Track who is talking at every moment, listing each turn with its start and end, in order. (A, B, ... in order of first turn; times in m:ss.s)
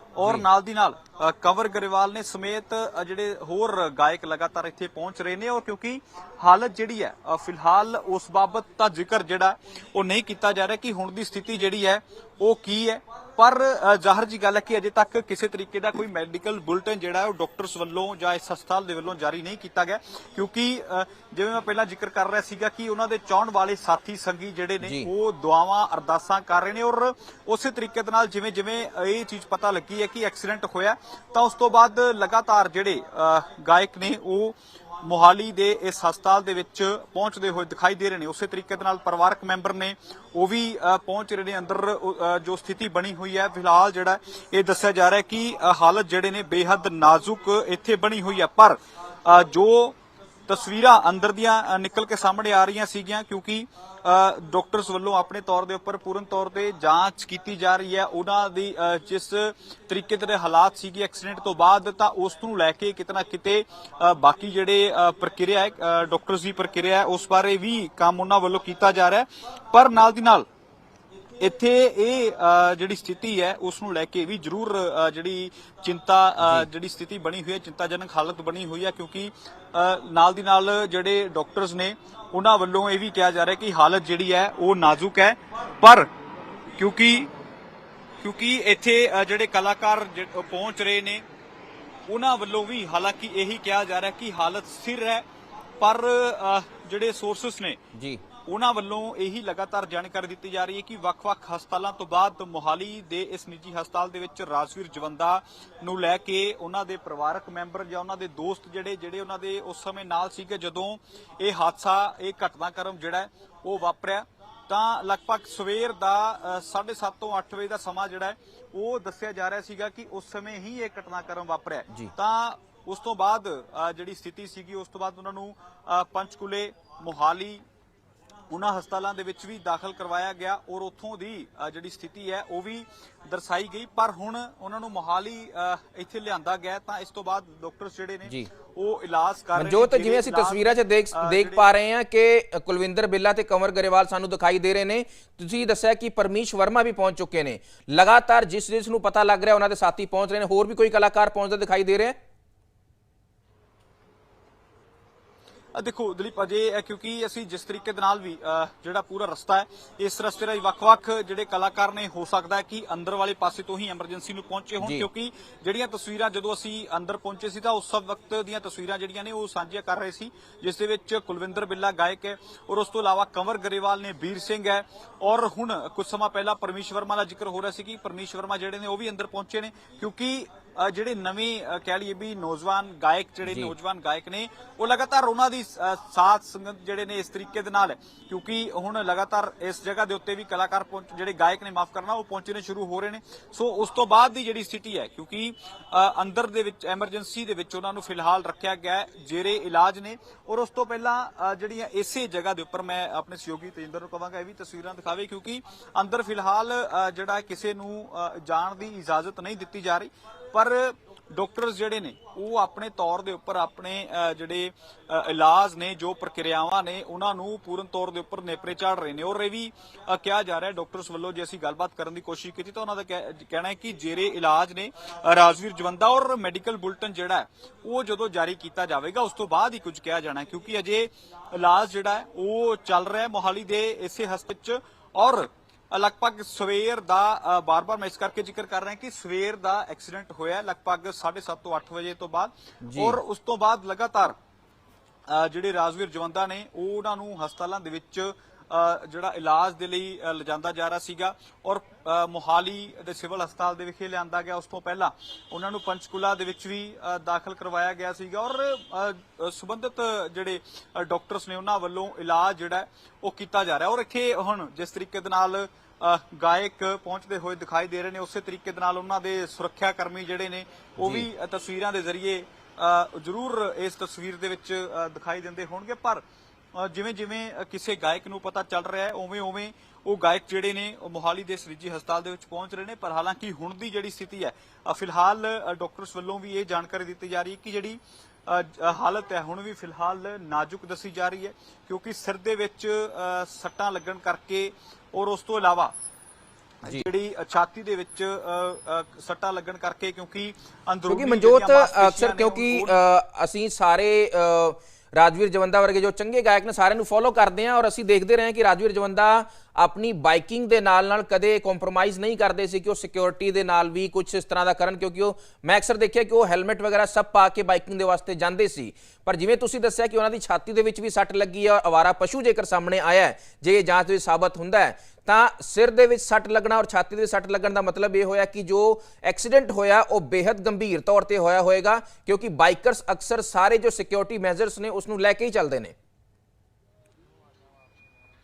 0:00.2-1:10.5 A
0:24.8-0:25.1 B
1:11.4-1:26.1 A
1:16.4-1:16.7 B
1:26.8-1:27.3 A
1:28.2-1:31.2 A
1:32.1-1:35.3 A
1:35.8-1:37.8 A
1:37.9-1:38.2 B
1:38.4-2:07.6 A
2:08.5-2:21.7 A
2:19.6-2:32.2 B
2:35.7-4:04.4 A
2:44.8-2:45.1 B
3:03.4-3:03.8 B
4:02.8-4:03.2 B
4:05.3-4:36.2 A
4:31.0-4:31.3 B
4:36.7-4:55.9 A
4:56.8-5:03.0 A
5:01.1-5:36.0 B